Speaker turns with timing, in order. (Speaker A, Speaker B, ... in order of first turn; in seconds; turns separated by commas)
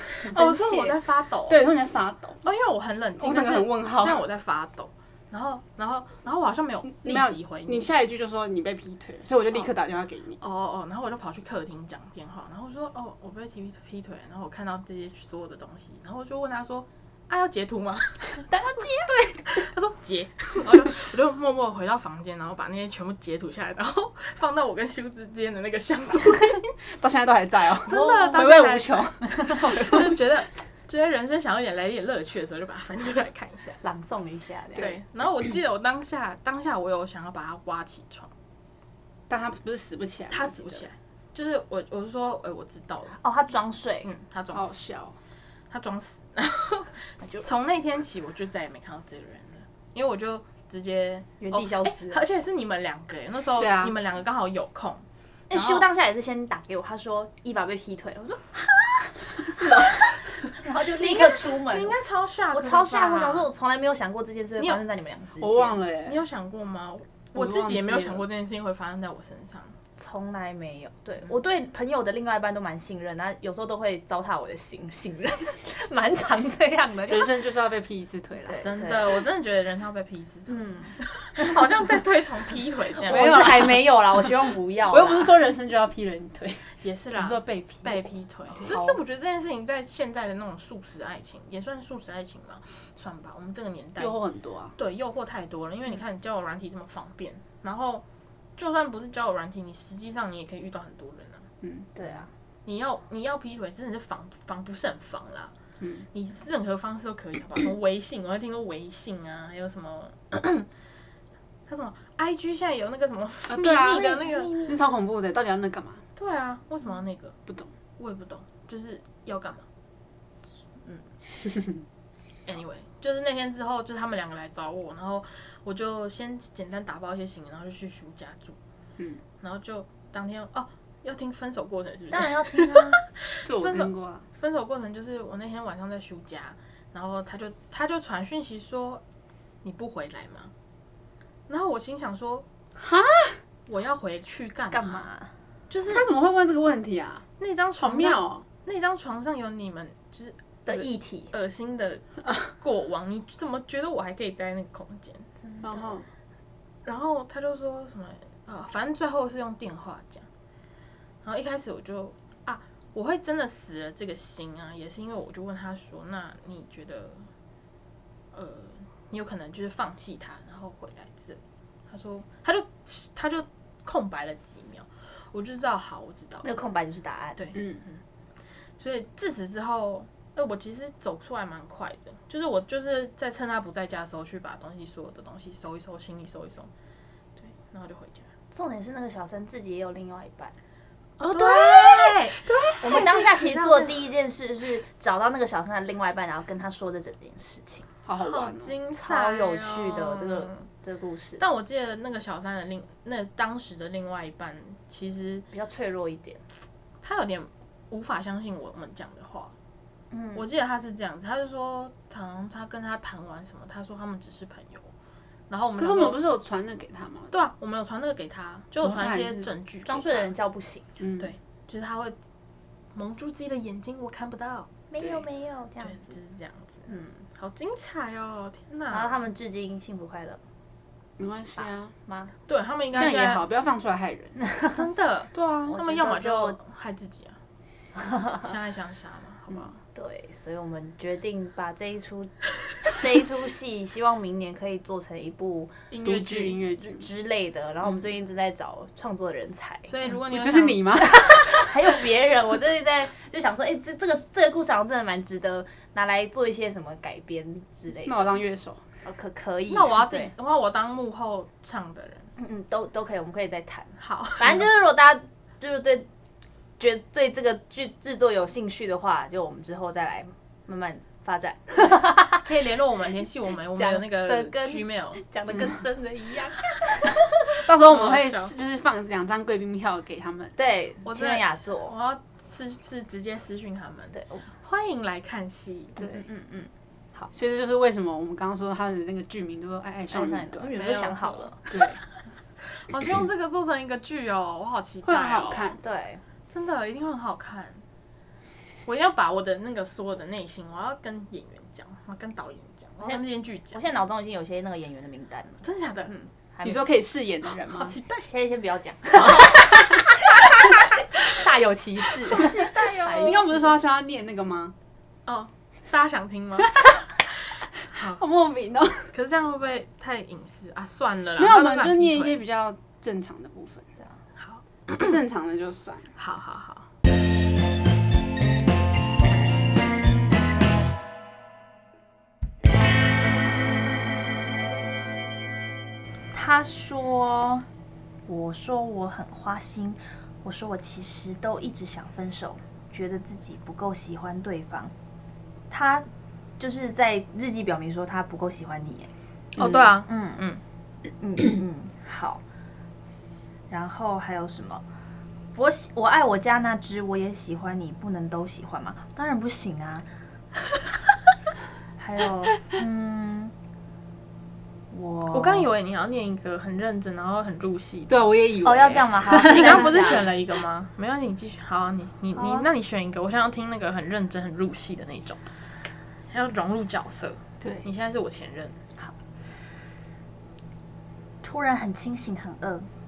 Speaker A: 0.2-1.0, Speaker B: 0.2-1.7, Speaker C: 1.5-2.4, Speaker B: 2.4-7.9, Speaker C: 3.2-4.2, Speaker C: 6.8-10.4, Speaker B: 10.4-18.5, Speaker A: 18.5-19.4, Speaker B: 19.4-26.7, Speaker C: 26.8-30.3, Speaker B: 27.8-33.8, Speaker A: 27.9-28.5, Speaker A: 29.2-30.0, Speaker A: 33.8-34.9, Speaker B: 34.7-38.3, Speaker C: 39.3-40.8, Speaker B: 40.3-43.2, Speaker A: 43.2-44.1, Speaker B: 44.0-44.9, Speaker C: 44.5-45.1, Speaker B: 45.7-55.0, Speaker A: 51.4-52.2, Speaker C: 53.5-53.9, Speaker A: 55.5-62.0, Speaker C: 59.4-60.1, Speaker B: 61.0-63.5, Speaker A: 62.5-65.8, Speaker C: 65.4-66.2, Speaker B: 66.0-69.8, Speaker C: 67.3-68.2, Speaker A: 69.9-77.3, Speaker C: 77.1-78.7, Speaker A: 78.4-79.2, Speaker B: 78.6-83.6, Speaker A: 80.5-81.7, Speaker A: 83.0-85.4, Speaker C: 83.0-84.3, Speaker C: 84.9-88.8, Speaker B: 86.8-94.2, Speaker A: 88.6-89.0, Speaker C: 94.0-94.7, Speaker B: 94.8-98.0, Speaker B: 98.6-101.5, Speaker C: 101.6-101.9, Speaker A: 102.0-102.3, Speaker B: 102.7-105.5, Speaker C: 105.8-106.0, Speaker B: 106.1-110.7, Speaker B: 111.7-114.6, Speaker C: 113.5-116.0, Speaker A: 113.9-114.8, Speaker B: 116.2-117.4, Speaker B: 118.0-119.7, Speaker C: 121.4-121.8, Speaker B: 122.5-128.6, Speaker B: 129.4-139.0, Speaker A: 132.1-133.0, Speaker C: 133.4-134.2, Speaker B: 139.6-140.5, Speaker B: 141.5-142.4, Speaker C: 142.8-143.4, Speaker B: 143.7-145.1, Speaker A: 144.7-145.3, Speaker B: 145.7-146.1, Speaker C: 145.9-147.2, Speaker B: 147.4-155.3, Speaker C: 147.8-148.4, Speaker A: 150.7-151.3, Speaker A: 155.4-155.9, Speaker C: 155.6-156.1, Speaker B: 156.8-160.3, Speaker B: 161.2-167.3, Speaker B: 168.3-176.5, Speaker A: 176.4-177.4, Speaker B: 177.4-178.0, Speaker C: 177.5-177.8, Speaker B: 178.8-186.7, Speaker B: 187.4-188.3, Speaker A: 188.5-190.5, Speaker B: 191.2-194.1, Speaker C: 191.2-193.1, Speaker A: 192.8-197.9, Speaker C: 198.0-198.8, Speaker B: 198.2-200.6, Speaker A: 198.9-201.4, Speaker B: 201.4-205.5, Speaker A: 205.5-206.4, Speaker B: 207.0-209.5, Speaker A: 210.1-210.5, Speaker B: 210.3-214.9, Speaker B: 215.5-216.2, Speaker C: 215.8-217.3, Speaker B: 217.3-220.3, Speaker C: 218.8-219.5, Speaker A: 219.8-220.9, Speaker C: 221.0-221.3, Speaker B: 221.2-222.2, Speaker B: 222.9-225.2, Speaker A: 224.9-226.2, Speaker B: 225.8-229.2, Speaker A: 226.9-227.2, Speaker A: 228.9-230.4, Speaker C: 231.2-231.9, Speaker A: 231.6-232.3, Speaker B: 232.5-233.4, Speaker C: 232.9-234.4, Speaker B: 234.7-237.4, Speaker C: 235.3-235.8, Speaker A: 235.7-236.6, Speaker A: 238.0-238.4, Speaker B: 238.4-239.8, Speaker A: 239.9-242.3, Speaker A: 242.8-245.8, Speaker B: 245.9-246.6, Speaker C: 246.0-247.1, Speaker A: 246.8-250.1, Speaker B: 249.9-251.1, Speaker C: 250.1-251.9, Speaker A: 251.2-258.3, Speaker C: 258.0-258.8, Speaker A: 259.0-260.3, Speaker B: 259.7-262.3, Speaker A: 262.4-266.1, Speaker B: 264.0-264.7, Speaker A: 266.8-272.5, Speaker B: 272.3-275.2, Speaker A: 273.7-277.2, Speaker C: 277.6-280.5, Speaker B: 277.8-278.5, Speaker A: 280.6-281.9, Speaker B: 281.0-286.0, Speaker A: 284.1-284.4, Speaker C: 286.0-286.3, Speaker A: 286.0-287.3, Speaker C: 287.3-291.1, Speaker A: 290.1-291.7, Speaker B: 290.7-291.5, Speaker C: 291.7-292.0, Speaker B: 292.6-295.7, Speaker C: 295.0-295.8, Speaker A: 295.8-296.2, Speaker B: 296.5-297.8, Speaker B: 298.9-303.8, Speaker A: 303.0-306.9, Speaker B: 305.6-306.1, Speaker C: 306.6-308.0, Speaker B: 307.7-308.3, Speaker A: 308.3-313.7, Speaker C: 309.2-309.6, Speaker B: 312.3-313.7, Speaker C: 312.3-314.7, Speaker B: 315.2-317.0, Speaker C: 316.6-316.9, Speaker B: 317.9-318.2, Speaker C: 317.9-319.1, Speaker B: 319.1-322.4, Speaker C: 321.4-323.9, Speaker B: 324.4-325.2, Speaker C: 324.9-326.1, Speaker B: 326.2-326.9, Speaker A: 336.3-337.6, Speaker A: 338.2-344.9, Speaker A: 345.7-346.1, Speaker A: 346.6-349.1, Speaker B: 349.6-350.6, Speaker C: 349.6-349.9, Speaker A: 349.9-350.4, Speaker A: 351.2-352.4, Speaker A: 353.7-354.8, Speaker A: 355.5-360.1, Speaker A: 362.0-363.5, Speaker A: 364.9-365.7, Speaker B: 365.3-368.2, Speaker C: 368.1-370.3, Speaker A: 368.6-370.3, Speaker B: 369.3-375.4, Speaker A: 372.3-372.7, Speaker B: 376.3-378.8, Speaker C: 377.6-377.9, Speaker A: 381.4-382.9